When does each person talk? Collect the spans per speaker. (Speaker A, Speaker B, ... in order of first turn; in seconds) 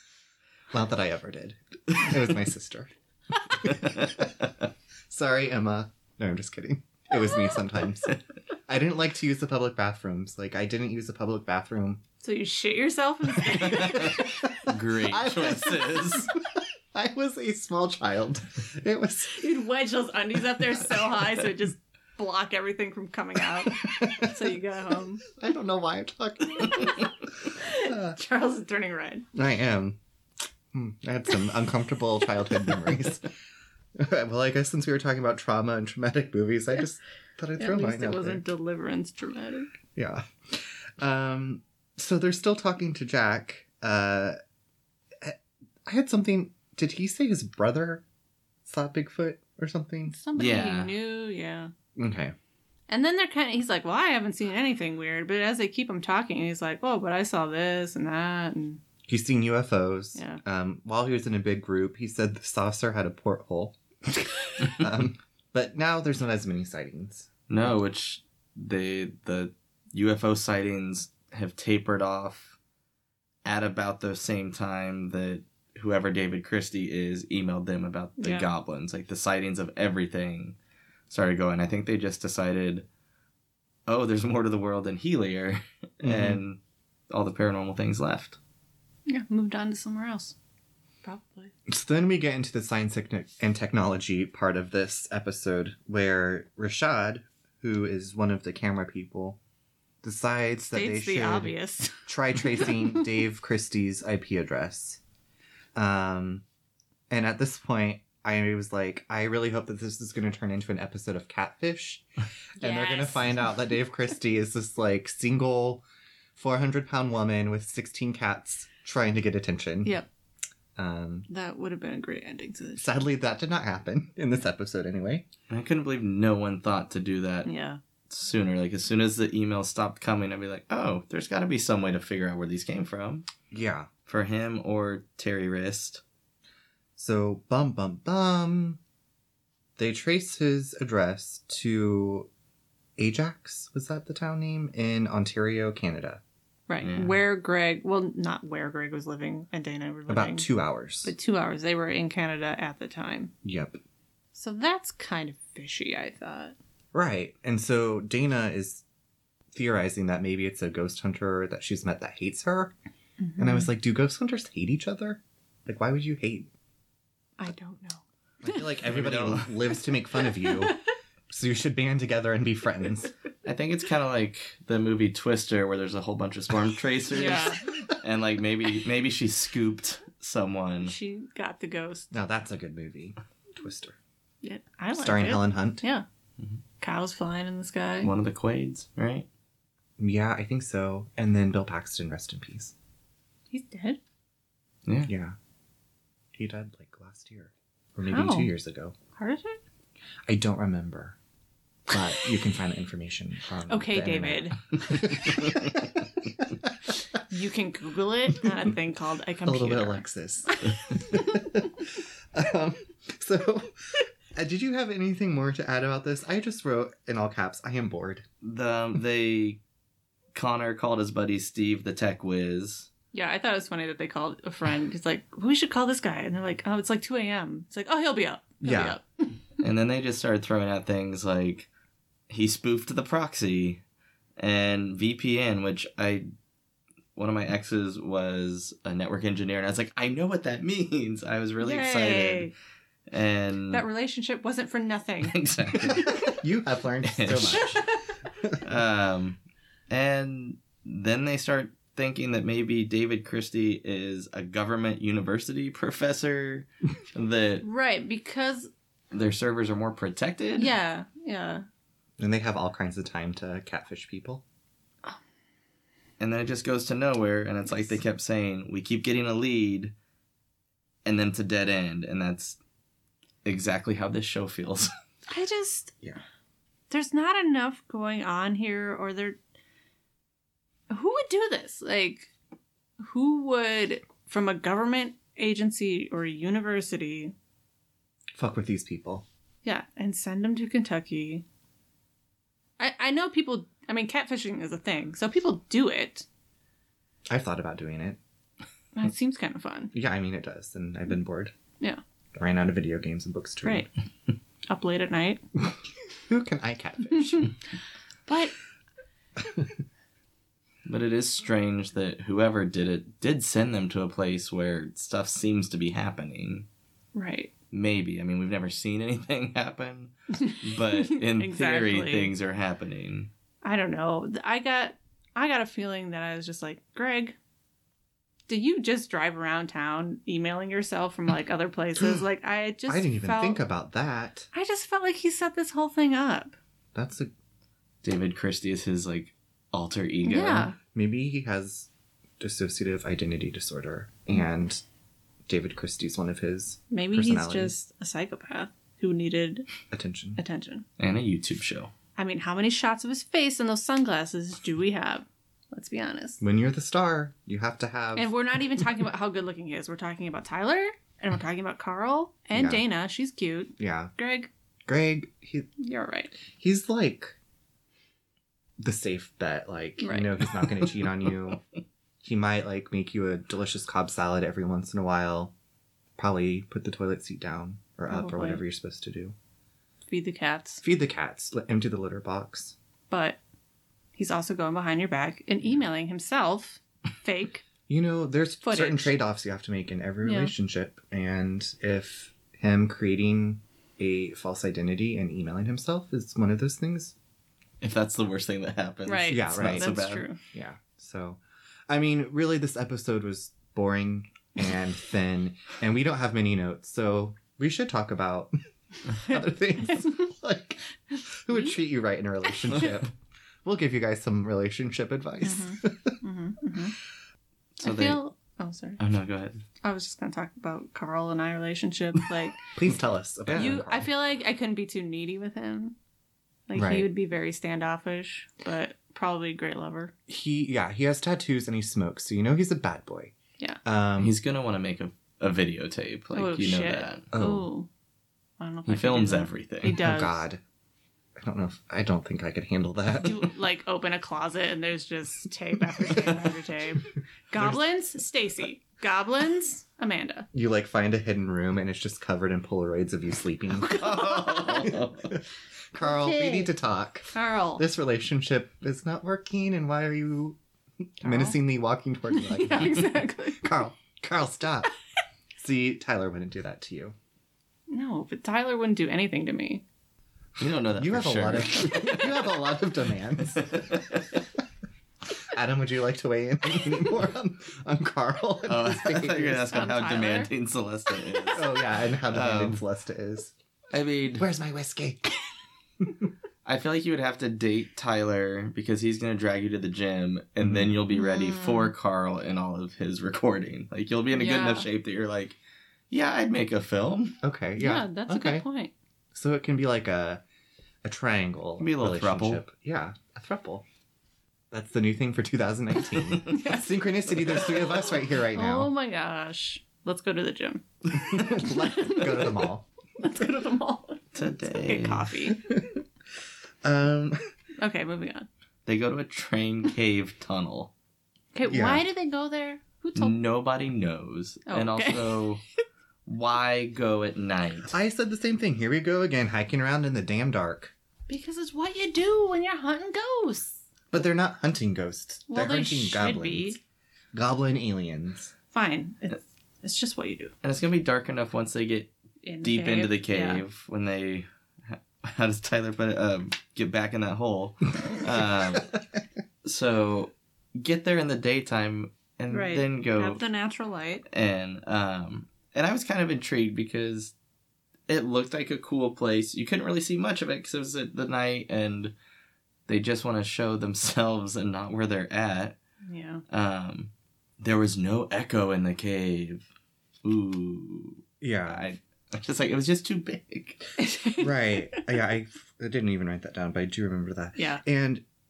Speaker A: 0.7-2.9, 3.5-4.3, 5.1-8.1, 8.7-12.0, 13.6-19.5, 23.6-24.5, 25.3-28.2, 29.3-30.0, 30.7-33.3, 34.0-38.4, 40.0-44.4, 45.2-48.0, 48.6-50.1, 52.0-52.3, 59.1-67.3, 86.0-86.4, 91.7-99.4, 100.0-101.5, 102.0-105.0, 105.7-106.4, 107.1-112.0, 112.6-115.8, 116.3-120.0, 120.8-121.3, 122.8-125.3, 133.5-133.9, 137.0-138.8, 139.8-142.3, 143.0-146.2, 150.1-151.1, 153.4-153.8, 156.9-158.8, 159.5-162.7, 163.4-166.5, 168.4-170.8, 171.3-173.1, 182.1-184.0, 184.9-185.8, 190.0-192.7, 195.1-195.3, 196.3-198.9, 200.3-201.2, 201.9-207.2, 209.4-218.2, 228.6-229.0, 245.9-247.8, 262.2-264.4, 288.3-289.2, 297.3-298.2, 299.9-301.5, 302.4-303.9, 306.3-307.5, 309.4-309.7, 332.9-334.5, 336.9-337.3, 340.9-344.8, 345.5-347.8, 349.9-350.4, 356.4-358.3, 362.5-362.8, 363.8-364.1, 364.9-365.7, 366.5-367.4, 368.8-371.6, 372.2-375.5, 376.2-379.3, 380.8-382.8, 387.9-397.1, 399.3-400.0, 400.5-408.5, 409.1-413.1, 413.6-416.2, 422.7-424.1, 426.7-427.1, 430.3-433.3, 433.8-434.4, 437.3-437.7, 439.9-440.6, 441.4-443.5, 446.1-446.4, 447.5-447.8, 450.5-460.6, 461.2-464.9, 465.6-467.1, 470.9-474.0, 475.4-479.9, 481.5-483.5, 484.3-485.4, 490.6-490.9, 497.4-498.6, 499.3-500.4, 501.0-503.8, 504.7-508.9, 511.1-512.9, 515.7-516.0, 516.8-517.5, 521.7-522.0, 527.9-530.9, 534.1-536.8, 537.3-538.5, 548.7-549.0, 571.4-571.9, 574.4-578.2
Speaker B: 12.2-14.4, 19.2-25.2, 27.6-29.2, 37.6-39.7, 50.1-51.7, 52.9-58.8, 60.1-60.4, 78.2-78.5, 89.1-90.3, 91.0-91.5, 100.6-102.9, 112.6-113.5, 121.3-122.9, 127.4-127.8, 146.7-150.5, 151.0-153.3, 154.3-156.5, 163.2-163.7, 167.4-168.0, 170.3-170.7, 177.1-177.8, 180.8-182.1, 184.4-186.0, 186.8-188.1, 193.5-194.0, 198.1-198.5, 199.1-199.6, 203.7-205.2, 207.3-210.0, 210.7-211.2, 223.1-229.4, 241.6-242.5, 243.7-245.3, 245.9-246.2, 247.5-248.0, 257.6-258.7, 260.6-261.6, 275.3-275.9, 276.9-279.4, 280.9-282.3, 283.0-287.3, 289.6-291.4, 292.8-296.2, 298.9-299.9, 303.6-303.9, 304.7-305.4, 308.3-308.5, 317.1-317.5, 320.4-322.3, 323.6-327.4, 328.5-333.6, 334.5-336.6, 340.2-340.8, 346.9-349.6, 350.4-350.9, 352.2-356.4, 358.1-364.5, 365.8-366.3, 370.0-370.4, 378.1-378.6, 380.1-380.8, 383.1-383.4, 384.1-387.6, 388.6-389.1, 390.2-390.5, 399.1-400.4, 409.8-410.2, 415.4-416.9, 417.8-419.0, 419.8-422.6, 423.5-425.9, 426.7-430.1, 436.3-437.9, 438.6-440.4, 443.2-450.5, 453.9-454.9, 456.0-456.7, 457.3-457.8, 461.2-461.6, 462.3-463.7, 467.9-469.8, 479.6-480.5, 491.1-491.9, 494.3-494.9, 497.8-498.9, 506.4-506.9, 508.5-512.6, 513.2-515.6, 517.8-518.5, 521.5-523.4, 524.7-525.4, 531.3-533.8, 535.5-536.8, 538.7-540.5, 542.4-543.6, 552.5-554.2, 566.0-566.4, 574.0-575.0, 577.6-577.8
Speaker C: 13.5-16.3, 50.4-50.9, 67.5-72.5, 73.4-80.5, 81.1-82.8, 83.8-86.6, 87.1-88.4, 125.5-127.5, 128.1-133.2, 134.1-136.0, 146.8-147.1, 168.8-169.6, 173.4-180.9, 188.0-189.3, 218.4-219.6, 220.3-222.9, 229.6-231.7, 232.3-233.8, 234.4-236.3, 237.2-242.5, 243.1-243.8, 245.2-246.3, 247.0-247.8, 248.6-249.4, 249.9-257.6, 259.1-260.7, 266.2-269.9, 271.0-272.6, 273.4-274.9, 310.9-316.6, 317.7-323.3, 338.0-340.7, 351.0-351.9, 397.8-400.3, 417.8-418.2, 419.0-419.6, 434.2-437.3, 438.9-440.0, 453.9-455.3, 470.6-472.3, 473.7-474.2, 478.7-482.8, 483.9-484.4, 486.6-495.6, 496.1-497.4, 501.8-502.6, 514.3-515.3, 518.9-520.9, 523.1-525.6, 526.2-527.9, 540.6-542.1, 542.6-548.9, 549.6-553.4, 554.3-557.3, 558.1-562.1, 562.9-565.8, 566.5-567.1, 567.6-569.6, 570.2-574.0